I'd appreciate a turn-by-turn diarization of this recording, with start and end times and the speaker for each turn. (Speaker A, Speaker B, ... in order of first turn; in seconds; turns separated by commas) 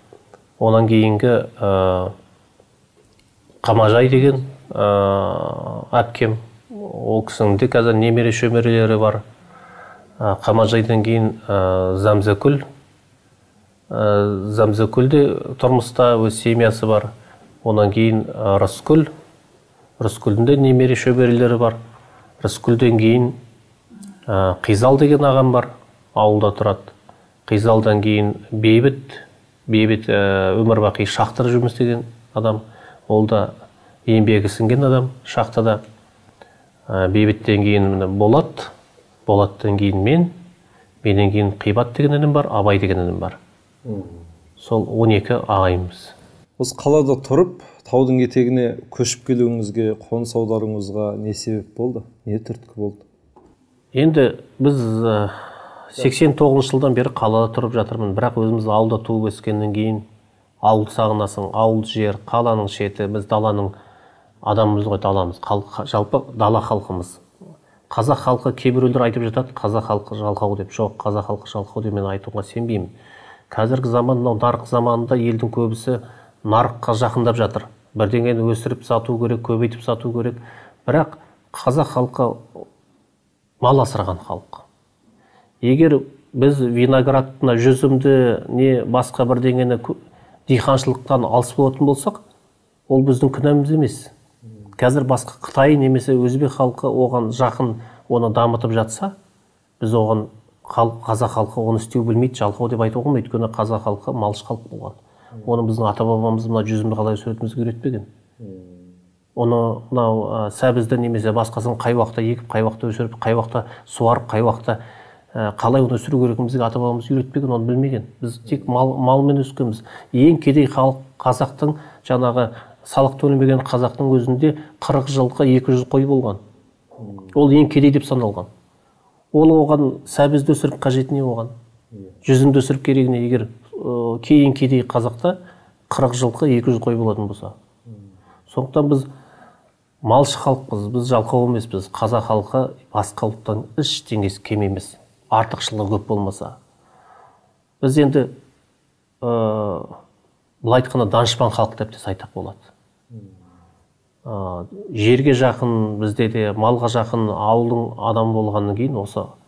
Speaker A: 0.6-2.1, Speaker A: 3.6-9.2, Speaker A: 10.2-12.6, Speaker A: 13.9-17.1, Speaker A: 17.6-19.1, Speaker A: 20.0-21.8, Speaker A: 22.4-23.4, Speaker A: 24.3-26.9, Speaker A: 27.5-33.5, Speaker A: 34.1-35.8, Speaker A: 36.9-38.7, Speaker A: 39.3-40.3, Speaker A: 41.0-43.4, Speaker B: 43.9-44.1, Speaker A: 44.6-46.1, Speaker B: 46.6-53.0, Speaker A: 53.9-60.0, Speaker A: 60.6-63.7, Speaker A: 64.5-67.2, Speaker A: 67.9-72.9, Speaker A: 73.5-82.7, Speaker A: 83.6-84.6, Speaker A: 85.6-90.0, Speaker A: 90.5-92.2, Speaker A: 92.9-94.1, Speaker A: 94.8-99.1, Speaker A: 99.8-108.1, Speaker B: 108.4-108.8, Speaker A: 109.4-114.8, Speaker A: 115.3-126.4, Speaker A: 127.3-128.5, Speaker A: 129.3-131.5, Speaker A: 132.2-135.4, Speaker A: 135.9-137.5, Speaker A: 138.5-139.1, Speaker A: 140.1-146.6, Speaker A: 147.8-148.3, Speaker A: 149.2-150.0, Speaker A: 150.6-152.7, Speaker A: 154.2-159.3